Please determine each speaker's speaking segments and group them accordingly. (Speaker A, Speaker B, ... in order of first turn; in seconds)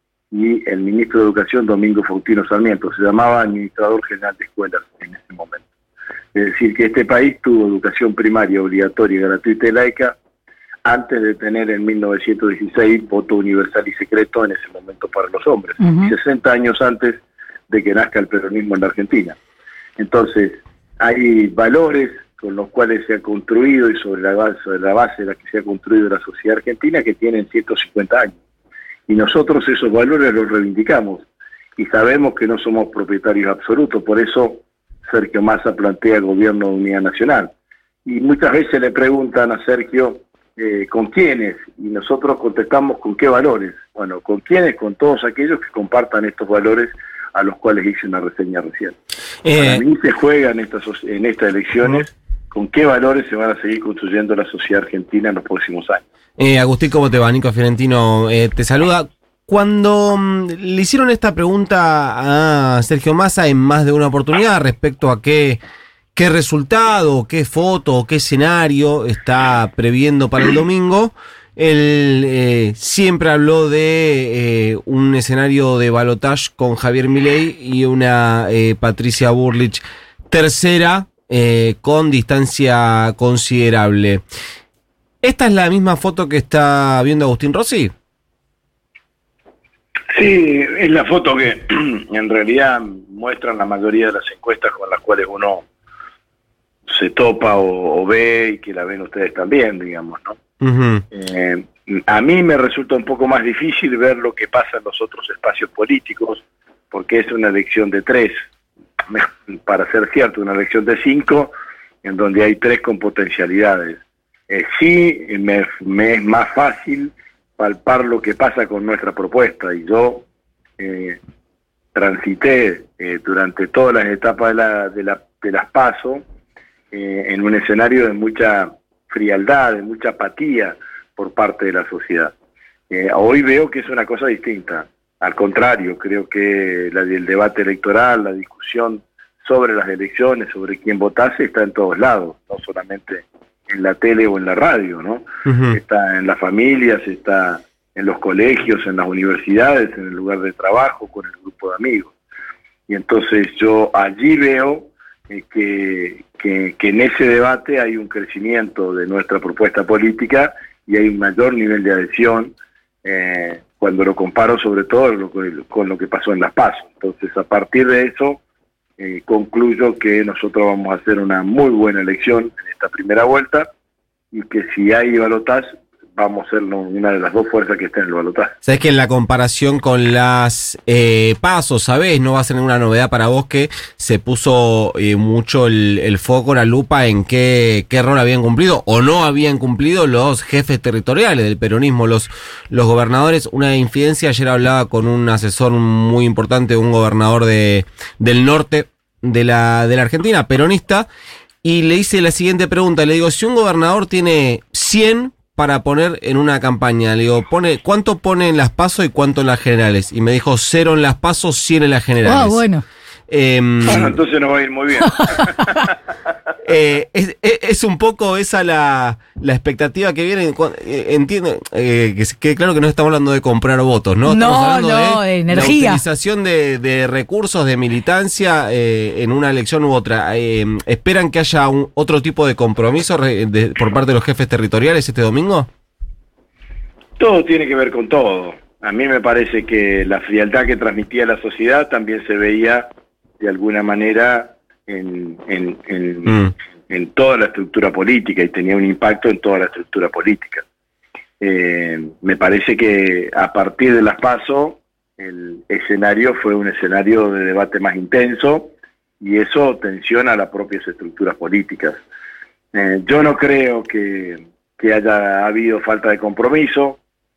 Speaker A: 0.3-5.6, 6.3-10.1, 10.8-19.4, 20.0-28.4, 29.1-37.5, 38.0-49.0, 49.5-56.0, 90.1-95.7, 96.9-100.4, 101.1-108.4, 109.1-120.2, 120.8-121.2, 121.9-126.2, 126.9-132.3, 132.9-152.1, 152.9-168.4, 169.0-173.7, 174.3-178.6, 213.9-215.8, 237.2-242.9, 243.4-250.6, 251.4-262.0, 262.7-267.0
Speaker B: 15.8-16.1, 212.2-212.8, 215.2-215.7, 224.2-226.0
Speaker C: 49.4-49.8, 56.4-65.6, 66.1-84.2, 85.2-87.9, 100.6-101.0, 145.4-145.8, 178.6-201.1, 201.6-212.6, 213.3-214.1, 216.6-235.7